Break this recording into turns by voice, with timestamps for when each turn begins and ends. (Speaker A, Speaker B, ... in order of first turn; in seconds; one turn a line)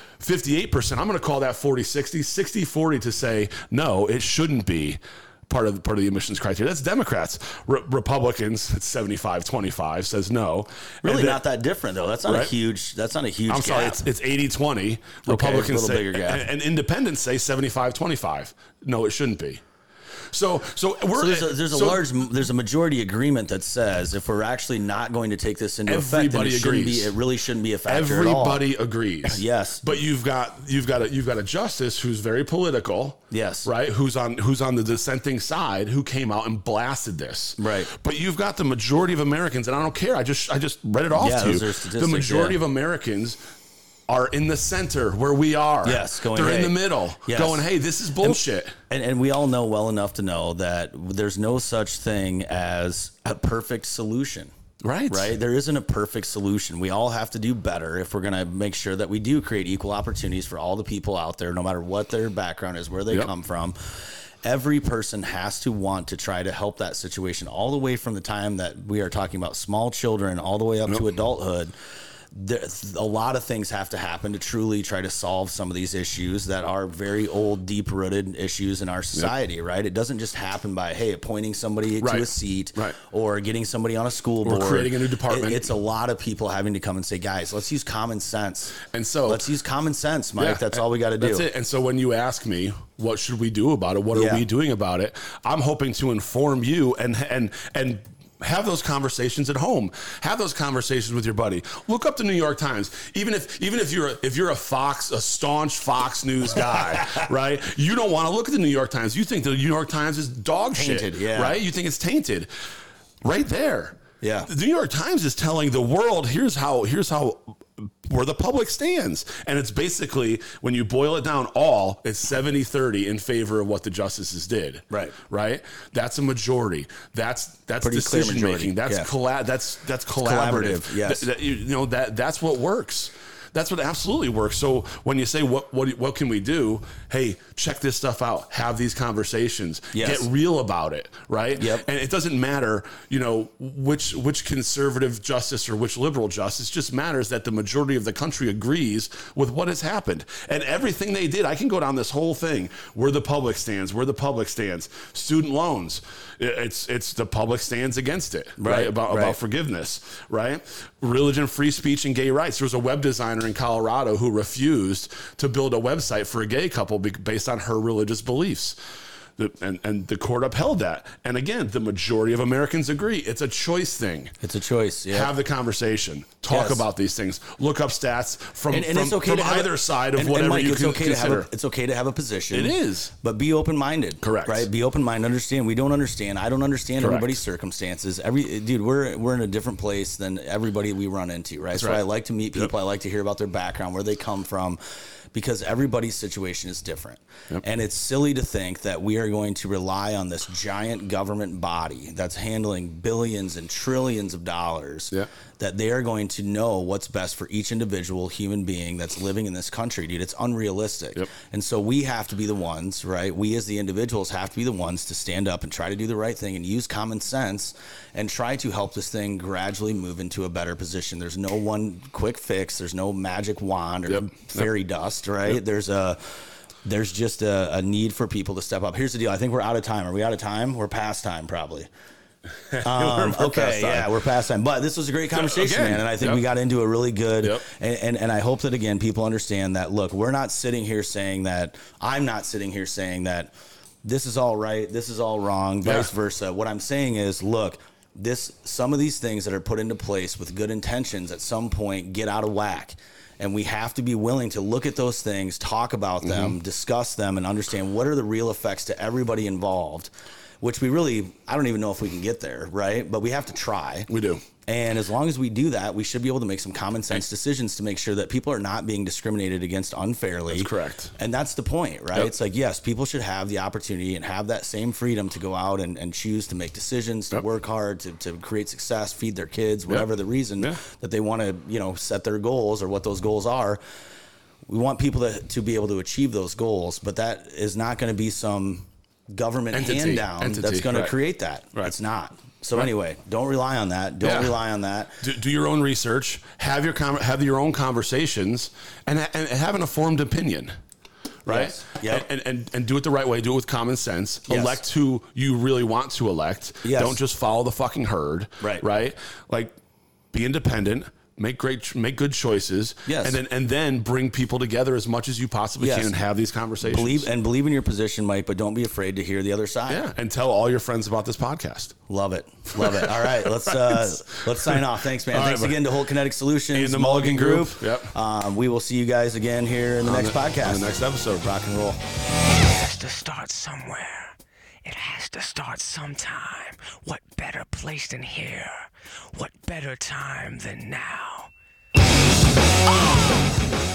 Speaker A: 0.2-11.4
Speaker B: 11.0-14.0
Speaker A: 12.3-12.5
Speaker A: 13.5-19.6
Speaker B: 15.3-16.4
Speaker A: 20.3-22.1
Speaker B: 21.1-28.6
Speaker A: 25.9-27.2
Speaker A: 27.9-43.4
Speaker B: 29.2-30.0
Speaker B: 33.3-33.7
Speaker B: 37.6-37.9
Speaker B: 41.1-42.6
Speaker A: 44.1-48.8
Speaker B: 45.8-47.6
Speaker B: 48.2-54.5
Speaker A: 54.8-55.3
Speaker B: 55.1-71.7
Speaker B: 72.3-91.5
Speaker A: 82.0-83.0
Speaker A: 84.4-85.7
Speaker A: 88.8-89.5
Speaker A: 90.4-112.5
Speaker B: 94.1-94.4
Speaker B: 107.0-107.3
Speaker B: 110.8-111.6
Speaker A: 113.2-168.8
Speaker B: 114.2-114.5
Speaker B: 124.9-125.2
Speaker B: 127.8-129.1
Speaker B: 130.2-131.3
Speaker B: 139.9-140.3
Speaker B: 141.6-141.8
Speaker B: 158.6-159.4
Speaker A: 169.4-174.3
Speaker B: 174.4-175.3
Speaker A: 175.1-181.5
Speaker B: 176.5-176.8
Speaker B: 178.7-194.8
Speaker A: 182.5-183.1
Speaker A: 184.2-184.7
Speaker A: 187.0-187.4
Speaker A: 191.8-192.0
Speaker B: 195.3-231.9
Speaker A: 224.1-224.6
Speaker A: 232.7-234.1
Speaker B: 232.8-243.5
Speaker A: 235.3-236.4
Speaker B: 244.0-264.1
Speaker A: 245.8-246.1
Speaker A: 256.2-256.6
Speaker A: 264.1-264.4
Speaker B: 264.7-283.8
Speaker A: 270.5-271.1
Speaker B: 284.7-295.2
Speaker A: 289.7-291.1
Speaker A: 294.2-294.6
Speaker A: 295.2-300.8
Speaker A: 301.5-309.8
Speaker B: 301.5-302.2
Speaker B: 304.5-304.8
Speaker B: 306.8-307.2
Speaker A: 310.3-317.3
Speaker B: 313.1-313.4
Speaker B: 315.8-316.1
Speaker B: 316.8-320.0
Speaker A: 319.9-322.0
Speaker B: 322.1-332.0
Speaker A: 322.8-325.9
Speaker A: 326.7-328.1
Speaker A: 330.0-331.5
Speaker C: 332.6-341.5
Speaker C: 342.9-343.4